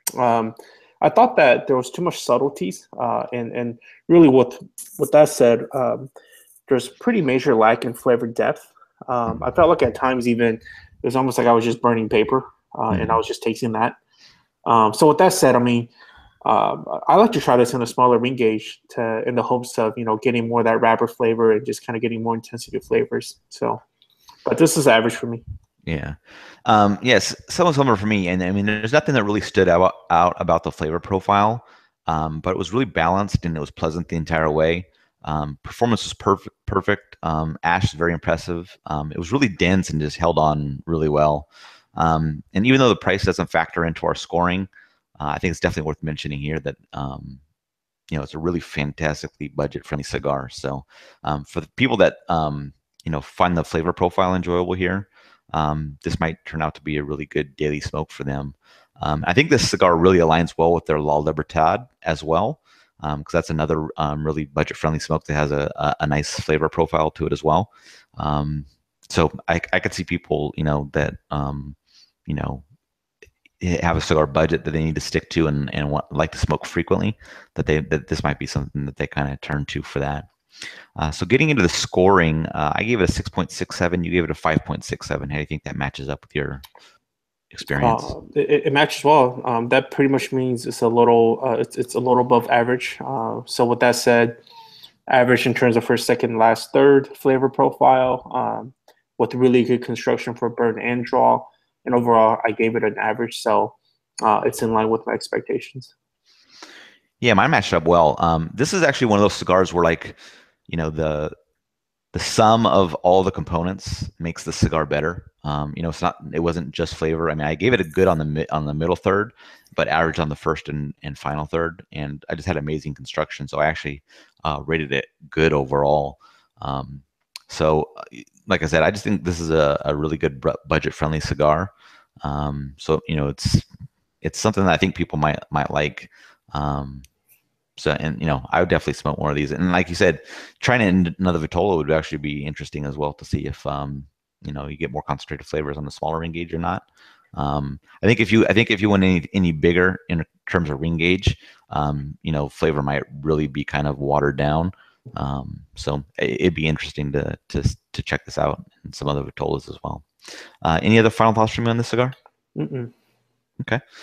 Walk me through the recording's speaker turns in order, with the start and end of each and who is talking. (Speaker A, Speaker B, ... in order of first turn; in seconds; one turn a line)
Speaker A: 0.2-6.1
Speaker A: 6.7-13.9
Speaker B: 12.9-13.2
Speaker A: 14.7-15.9
Speaker A: 16.4-23.8
Speaker A: 24.4-25.4
Speaker B: 25.9-47.4
Speaker B: 48.1-71.8
Speaker B: 72.3-72.6
Speaker B: 73.6-80.3
Speaker B: 81.0-86.6
Speaker B: 87.5-88.1
Speaker A: 87.8-94.4
Speaker A: 95.1-105.9
Speaker B: 107.2-111.3
Speaker B: 112.1-131.7
Speaker B: 132.2-133.7
Speaker B: 134.2-137.1
Speaker B: 137.8-146.8
Speaker B: 147.3-160.0
Speaker B: 160.6-162.1
Speaker A: 162.6-162.9